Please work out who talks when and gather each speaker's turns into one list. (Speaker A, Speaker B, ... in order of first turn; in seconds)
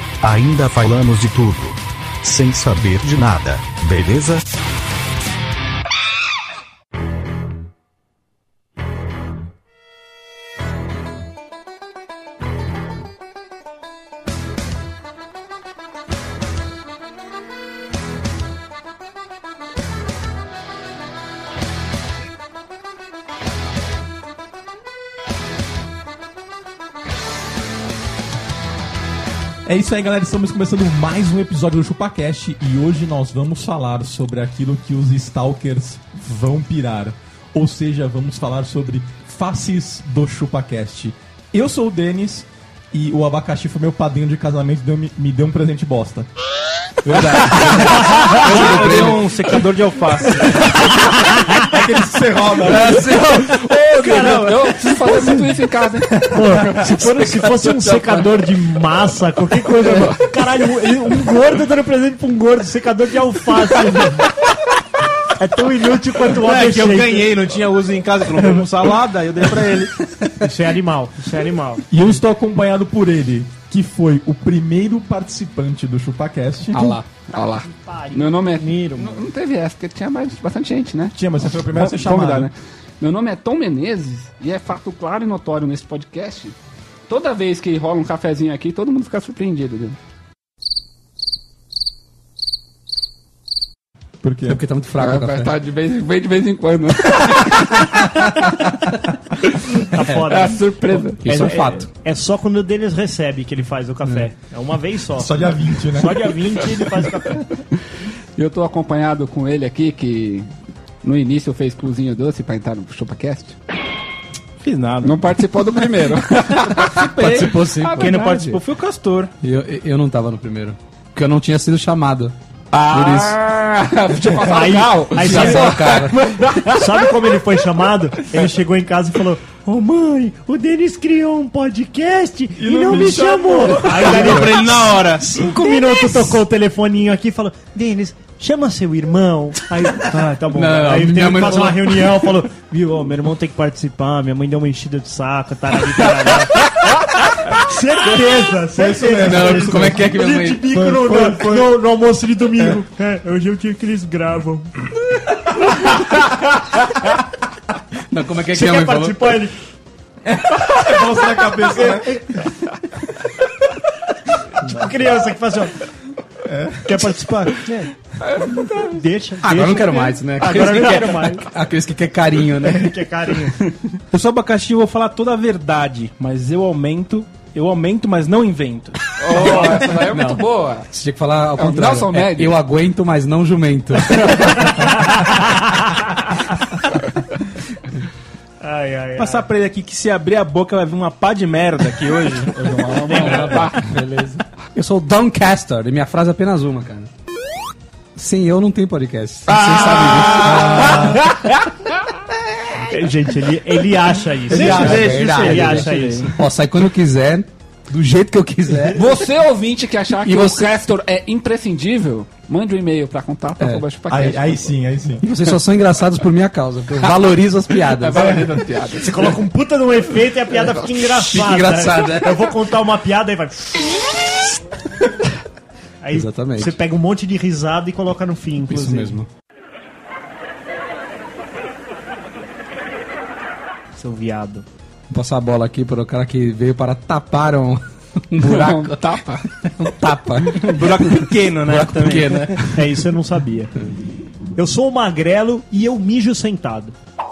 Speaker A: 0.2-4.5
Speaker B: 29.6-46.3, 51.5-53.1, 71.9-77.0, 81.1-82.5, 94.2-94.6, 105.2-106.3, 132.5-134.7, 135.2-135.6, 148.7-150.1, 150.7-151.8, 160.2-162.2, 166.4-167.1, 200.4-201.2, 204.5-205.2, 214.1-215.2, 218.2-218.4
Speaker C: 47.0-50.8, 52.9-54.7, 66.3-70.1, 114.6-115.2, 116.8-119.3, 126.2-126.8, 133.8-135.3, 174.1-180.0, 189.2-193.7, 204.5-206.3, 240.4-242.6
Speaker D: 47.1-49.2, 52.7-53.3, 57.2-58.3, 76.7-77.0, 94.5-95.5, 101.1-101.9, 117.1-118.6, 119.4-122.3, 122.9-123.3, 125.2-126.2, 140.5-142.2, 149.2-150.7, 158.1-159.3, 169.4-172.9, 179.9-185.2, 193.1-197.1, 198.2-201.2, 204.5-209.0, 210.2-210.7, 213.6-213.8, 215.2-218.4, 221.1-222.5, 226.1-226.8, 228.7-229.3, 235.1-239.0, 239.6-242.8
Speaker E: 53.9-54.5, 56.2-64.3, 65.3-67.4, 70.4-71.8, 77.4-79.2, 99.9-100.6, 101.2-107.4, 124.4-125.9, 126.7-146.7, 147.4-154.7, 158.5-159.5, 164.6-165.7, 166.8-167.9, 168.9-171.5, 172.6-173.7, 188.6-189.4, 202.8-206.3, 219.0-224.0, 226.0-229.2, 233.9-234.6, 242.7-243.7, 244.6-246.9
Speaker F: 54.0-56.2, 77.3-86.5, 87.1-90.0, 95.0-98.5, 100.3-101.5, 108.3-110.5, 111.0-113.5, 115.0-117.0, 117.8-118.1, 122.7-126.4, 168.2-168.9, 179.2-180.9, 181.6-182.6, 192.8-193.8, 199.5-202.0, 208.9-214.7, 217.8-219.4, 238.4-239.4